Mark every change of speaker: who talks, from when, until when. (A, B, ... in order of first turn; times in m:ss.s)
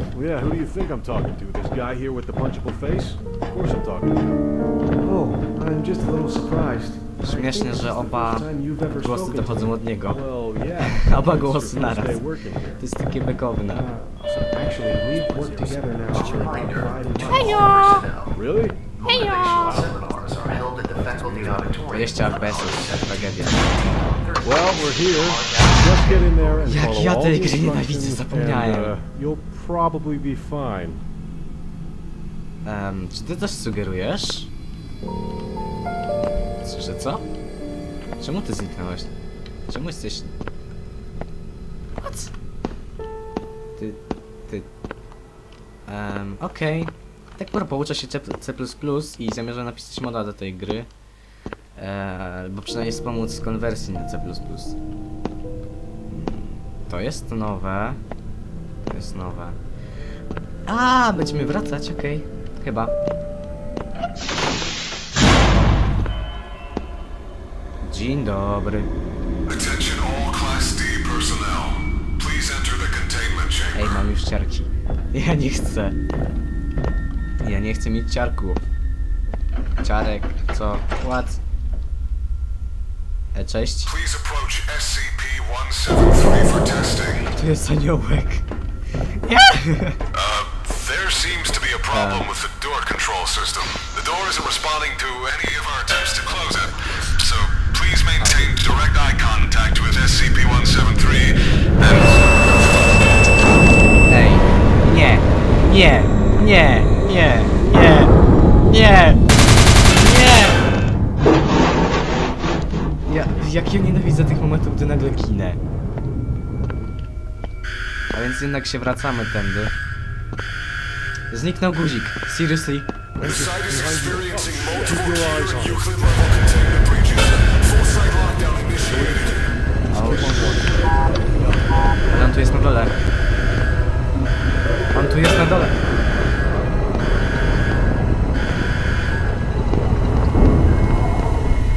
0:00.1-0:04.3 A
0:05.0-0:09.6 B
0:07.2-0:10.2 C
0:08.8-0:12.8 A
0:10.8-0:12.2 C
0:12.8-0:13.9 C
0:13.7-0:17.8 B
0:15.0-0:18.4 D
0:16.1-0:16.8 A
0:18.3-0:20.3 A
0:18.9-0:26.7 D
0:20.8-0:21.9 A
0:21.9-0:23.7 C
0:24.4-0:31.0 A
0:26.6-0:28.9 C
0:32.6-0:34.5 C
0:36.6-0:37.2 C
0:38.2-0:39.1 C
0:39.7-0:40.3 C
0:42.0-0:42.3 C
0:43.8-0:44.7 C
0:45.9-0:50.9 C
0:51.8-0:54.8 C
0:56.1-0:58.0 C
0:58.9-0:59.6 C
1:00.7-1:02.9 C
1:07.8-1:08.9 C
1:09.5-1:13.9 E
1:13.7-1:16.0 C
1:17.4-1:18.6 C
1:19.8-1:21.4 C
1:23.3-1:23.9 C
1:23.9-1:27.3 E
1:27.3-1:28.4 C
1:29.2-1:30.0 C
1:30.1-1:42.6 E
1:31.9-1:32.3 C
1:41.9-1:42.2 C
1:44.1-1:48.1 C
1:48.7-1:49.2 C
1:50.0-1:50.6 C
1:53.1-1:55.6 C
1:58.1-1:59.7 C
2:01.3-2:02.9 C
2:03.2-2:09.4 E
2:03.2-2:06.2 A
2:08.8-2:09.4 A
2:09.9-2:10.6 C
2:09.9-2:10.8 A
2:12.1-2:12.9 C
2:14.9-2:15.8 C